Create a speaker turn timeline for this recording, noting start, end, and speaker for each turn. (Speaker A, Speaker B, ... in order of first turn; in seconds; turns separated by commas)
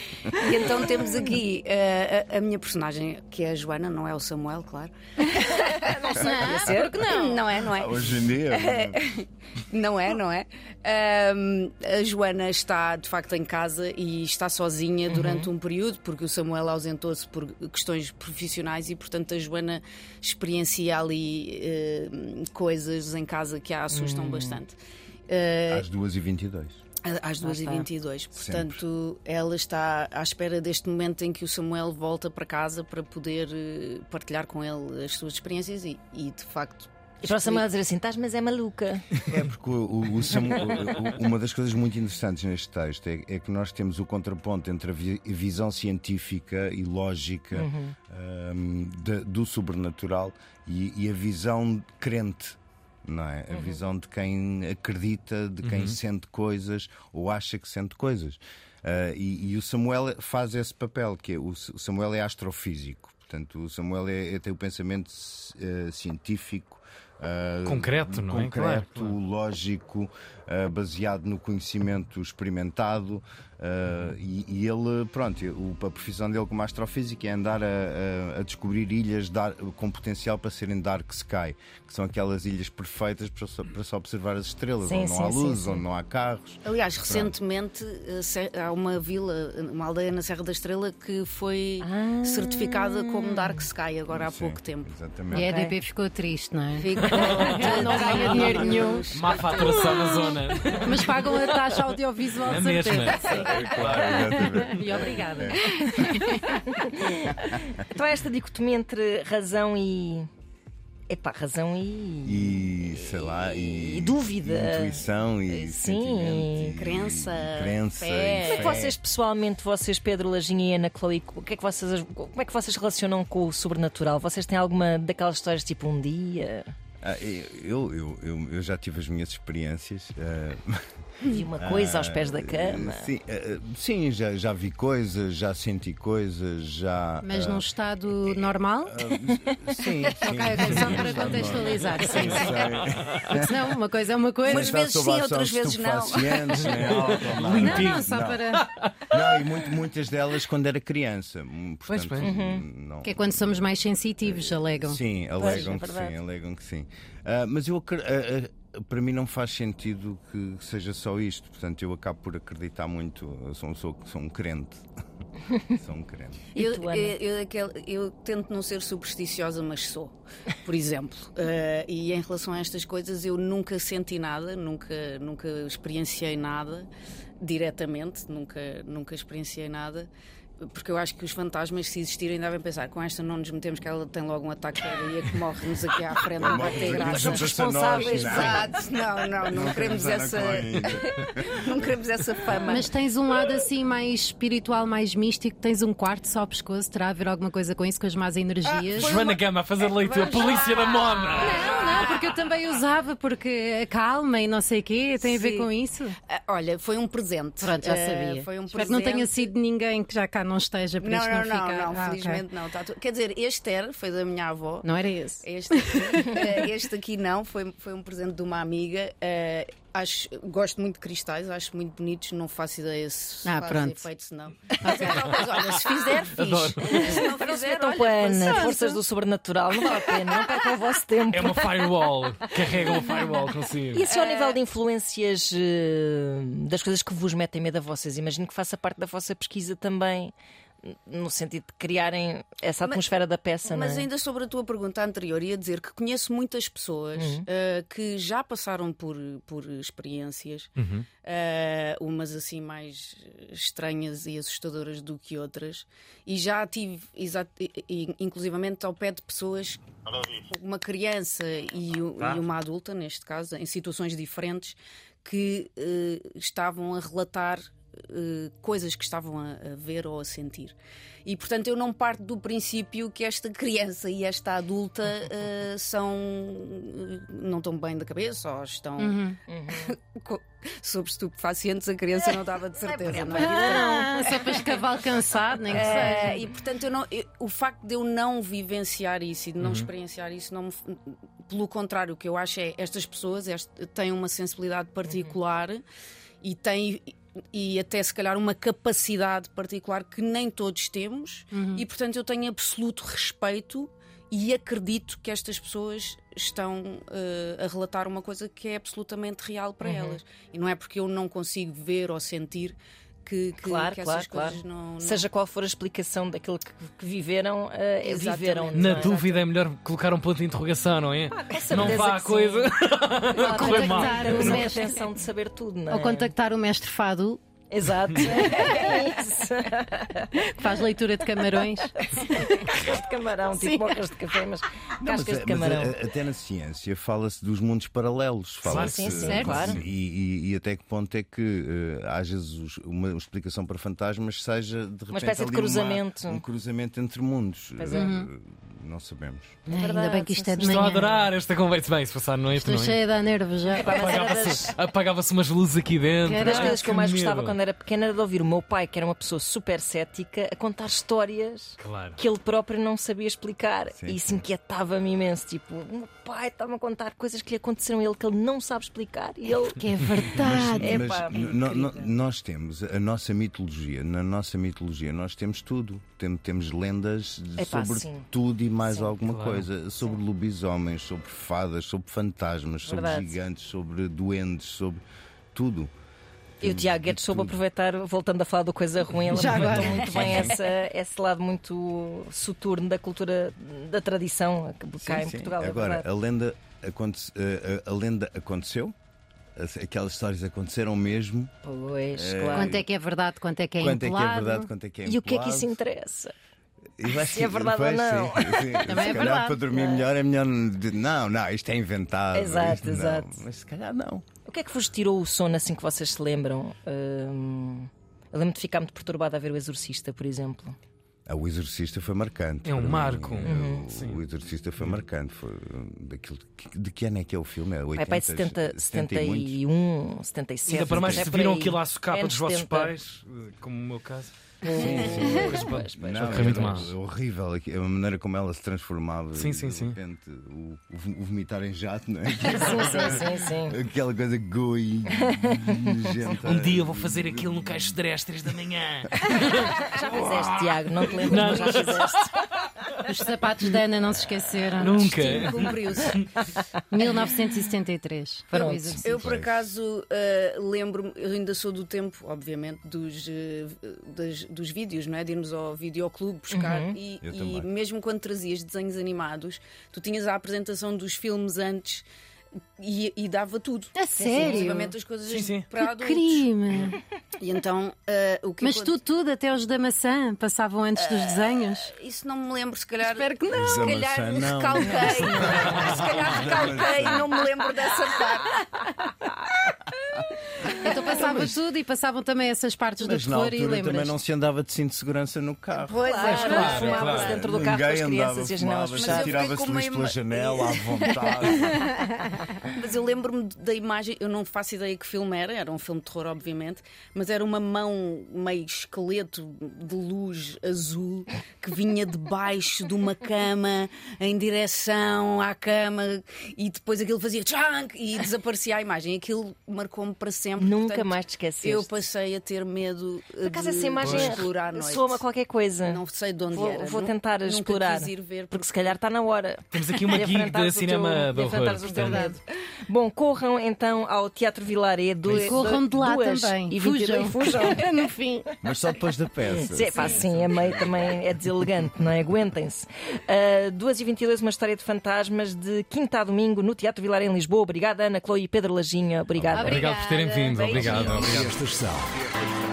Speaker A: 0.3-24.8, Speaker B: 5.6-7.0, Speaker C: 6.2-7.3, Speaker D: 7.7-9.0, Speaker B: 15.1-15.5, Speaker B: 23.9-24.6, Speaker A: 25.3-25.8, Speaker D: 25.7-26.8, Speaker A: 27.0-37.6, Speaker B: 27.4-27.9, Speaker D: 28.3-28.8, Speaker B: 37.2-39.1, Speaker D: 39.2-87.3, Speaker B: 47.5-48.0, Speaker B: 53.5-53.8, Speaker E: 55.6-56.0, Speaker E: 67.6-69.1, Speaker B: 84.8-85.8, Speaker A: 86.6-94.9, Speaker B: 91.8-93.6, Speaker D: 94.1-95.5, Speaker B: 95.3-95.8, Speaker C: 95.3-99.0, Speaker A: 96.8-101.0, Speaker E: 97.0-104.5, Speaker C: 100.8-106.4, Speaker A: 103.1-103.5, Speaker D: 103.2-105.7, Speaker A: 105.5-106.4, Speaker B: 106.5-110.3, Speaker B: 111.1-116.8, Speaker D: 112.2-119.0, Speaker A: 116.8-118.9, Speaker B: 118.5-126.7, Speaker D: 127.0-130.8, Speaker B: 131.2-133.1, Speaker D: 131.6-137.6, Speaker C: 137.2-139.1, Speaker D: 138.3-143.7, Speaker C: 139.8-142.8, Speaker A: 140.7-141.3, Speaker C: 143.3-144.7, Speaker A: 144.4-146.7, Speaker D: 144.4-148.5, Speaker E: 146.6-149.4, Speaker C: 147.5-148.6, Speaker D: 149.1-153.7, Speaker E: 151.9-152.3, Speaker B: 152.2-152.6, Speaker C: 153.0-155.0, Speaker D: 154.3-164.8, Speaker B: 155.4-156.2, Speaker D: 165.7-166.5, Speaker B: 166.5-167.1, Speaker A: 166.6-176.9, Speaker A: 177.4-180.1, Speaker A: 180.6-187.4, Speaker D: 186.4-188.7, Speaker B: 186.6-188.7, Speaker A: 187.9-192.9, Speaker D: 189.5-191.5, Speaker C: 192.7-199.0, Speaker A: 198.6-202.3, Speaker E: 198.9-201.7, Speaker C: 201.4-206.2, Speaker A: 205.2-205.7, Speaker A: 206.3-209.5, Speaker C: 207.6-212.4, Speaker A: 211.0-214.9, Speaker C: 214.8-215.4, Speaker A: 215.4-229.0, Speaker C: 223.4-224.1, Speaker C: 224.8-225.3, Speaker E: 226.3-227.2, Speaker B: 227.0-231.7, Speaker E: 231.3-234.1, Speaker B: 233.9-244.1, Speaker A: 234.0-234.6, Speaker A: 243.6-250.7, Speaker B: 247.2-247.4, Speaker E: 250.8-251.1, Speaker A: 251.2-284.9, Speaker C: 279.0-279.3, Speaker B: 279.5-279.9, Speaker B: 282.9-284.1, Speaker C: 283.4-286.4, Speaker A: 285.7-295.8, Speaker E: 289.6-289.9, Speaker B: 295.1-295.3, Speaker A: 296.4-315.3, Speaker C: 301.5-301.8, Speaker B: 309.8-310.2, Speaker B: 313.6-319.4, Speaker A: 318.0-319.4, Speaker E: 318.7-324.7, Speaker B: 321.4-322.7, Speaker B: 323.4-326.3, Speaker C: 323.4-325.0, Speaker C: 325.9-327.4, Speaker B: 327.7-330.7, Speaker C: 330.4-331.9, Speaker B: 331.4-335.9, Speaker C: 333.6-334.0, Speaker D: 335.0-349.6, Speaker B: 338.6-339.8, Speaker E: 338.7-339.8, Speaker C: 339.3-339.6, Speaker B: 345.1-346.4, Speaker B: 347.8-348.1, Speaker C: 347.9-348.3, Speaker C: 349.7-351.2, Speaker B: 349.7-351.2, Speaker E: 350.6-353.0, Speaker C: 352.6-354.0, Speaker B: 353.7-354.7, Speaker E: 353.9-357.6, Speaker C: 356.2-357.1, Speaker B: 356.3-372.1, Speaker E: 361.8-362.2, Speaker D: 363.9-364.4, Speaker C: 369.6-371.0, Speaker D: 370.4-385.9, Speaker B: 377.6-378.2, Speaker E: 379.2-379.7, Speaker B: 382.9-383.4, Speaker D: 386.6-387.6, Speaker B: 386.6-396.1, Speaker E: 389.3-390.6, Speaker C: 389.4-390.1, Speaker A: 389.8-390.4, Speaker D: 395.0-398.9, Speaker D: 399.6-401.5, Speaker B: 401.6-402.8, Speaker D: 402.1-402.8, Speaker C: 402.6-404.7, Speaker D: 403.8-405.8, Speaker B: 405.1-406.3, Speaker D: 407.0-414.2, Speaker B: 407.1-409.2, Speaker C: 408.9-409.7, Speaker B: 412.3-413.4, Speaker B: 414.4-420.8, Speaker D: 421.3-429.6, Speaker E: 422.6-424.2, Speaker B: 423.4-423.9, Speaker B: 427.9-432.9, Speaker E: 430.7-436.9, Speaker D: 430.9-431.3, Speaker B: 434.6-436.9, Speaker D: 434.7-448.0, Speaker E: 439.3-440.0, Speaker B: 442.4-443.8, Speaker B: 445.2-445.9, Speaker E: 446.4-452.4, Speaker B: 449.5-452.4, Speaker A: 451.3-451.8, Speaker C: 453.1-454.9, Speaker A: 454.8-456.3, Speaker E: 454.8-456.3, Speaker C: 456.9-458.9, Speaker B: 458.5-459.1, Speaker A: 459.0-472.1, Speaker D: 459.0-459.7, Speaker B: 466.5-466.9, Speaker D: 467.2-467.7, Speaker A: 472.8-476.5, Speaker C: 473.9-474.9, Speaker B: 474.2-474.8, Speaker E: 475.3-475.7, Speaker C: 475.8-477.0, Speaker A: 477.4-479.0, Speaker C: 478.6-481.9, Speaker A: 480.9-488.9, Speaker C: 483.0-483.8, Speaker D: 483.5-487.2, Speaker E: 485.4-486.4, Speaker C: 490.8-494.1, Speaker A: 491.1-491.4, Speaker D: 493.0-496.0, Speaker A: 495.8-497.4, Speaker B: 496.0-499.4, Speaker E: 496.2-497.4, Speaker D: 497.0-501.8, Speaker A: 499.0-501.8, Speaker A: 502.6-525.2, Speaker B: 520.6-521.9, Speaker B: 523.4-538.1, Speaker E: 524.0-524.5, Speaker A: 525.8-528.9, Speaker E: 529.7-532.3, Speaker C: 531.9-532.4, Speaker C: 535.3-538.5, Speaker D: 538.6-540.6, Speaker B: 539.5-549.9, Speaker E: 549.5-552.2, Speaker A: 549.5-551.6